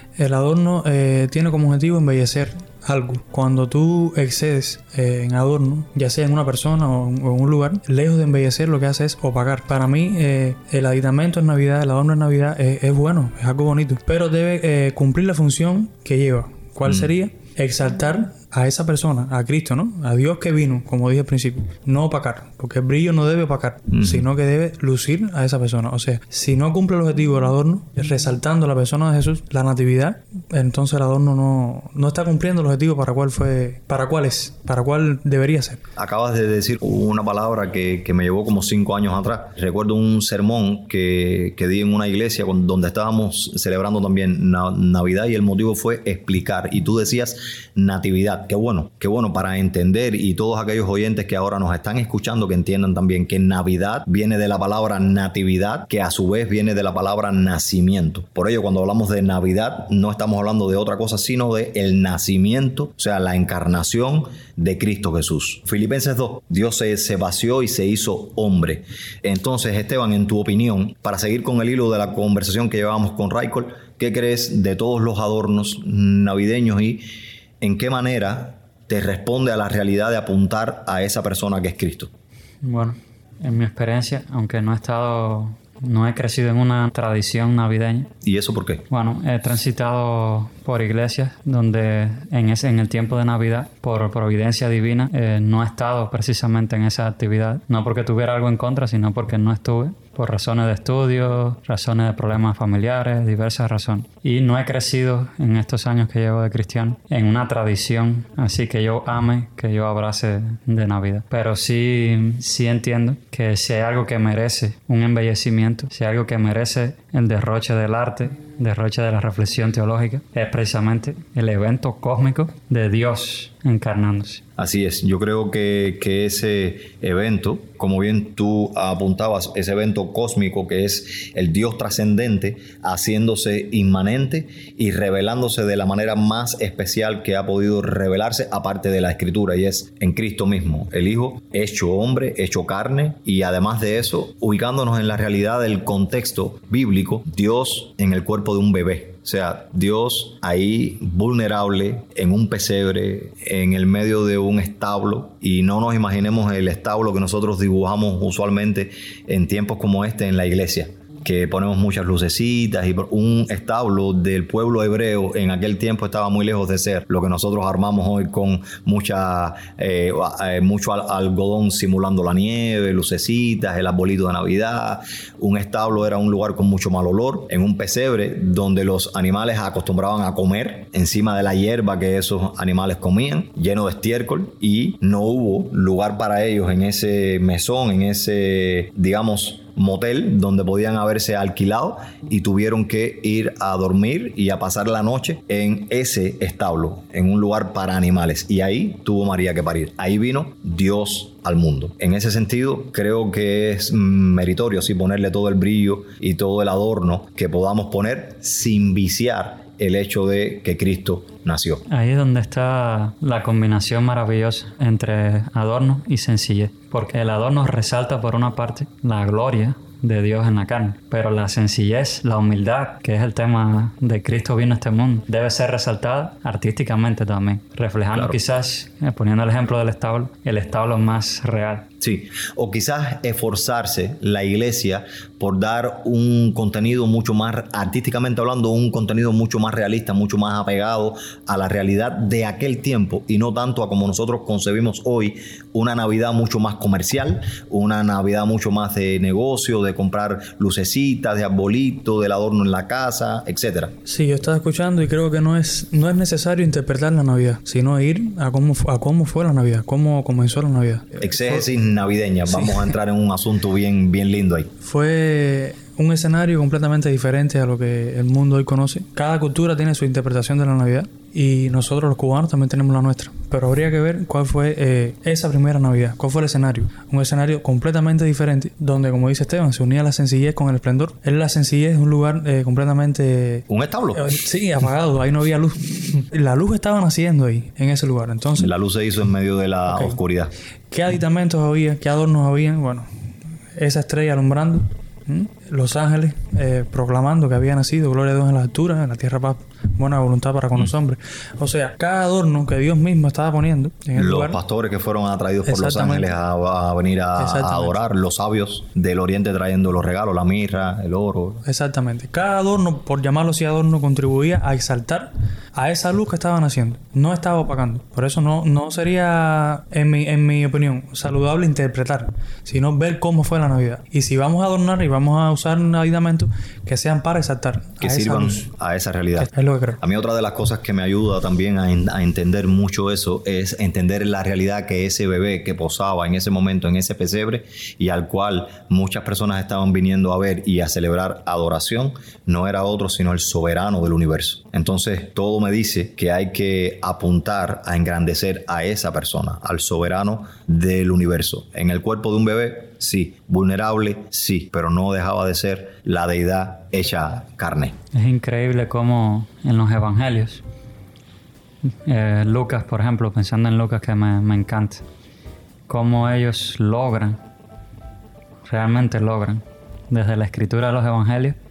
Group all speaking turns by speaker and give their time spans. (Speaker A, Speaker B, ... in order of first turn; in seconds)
Speaker A: 0.2-35.8, 254.1-261.7, 262.5-262.9, 264.8-288.7, 289.9-290.2, 290.9-293.1, 293.8-304.6, 305.7-306.3, 307.4-308.0, 311.7-328.7, 329.4-330.0
Speaker B: 16.8-17.1, 23.9-24.3, 36.0-77.1, 77.6-82.1, 88.2-88.9, 124.6-211.8, 228.1-228.4, 232.0-254.0, 261.2-264.7, 283.7-284.4, 288.6-290.5, 304.1-311.6, 328.0-358.0
Speaker C: 82.6-88.1, 88.9-124.4, 211.9-231.9, 358.1-360.6, 362.1-365.1, 365.9-367.4, 368.7-371.6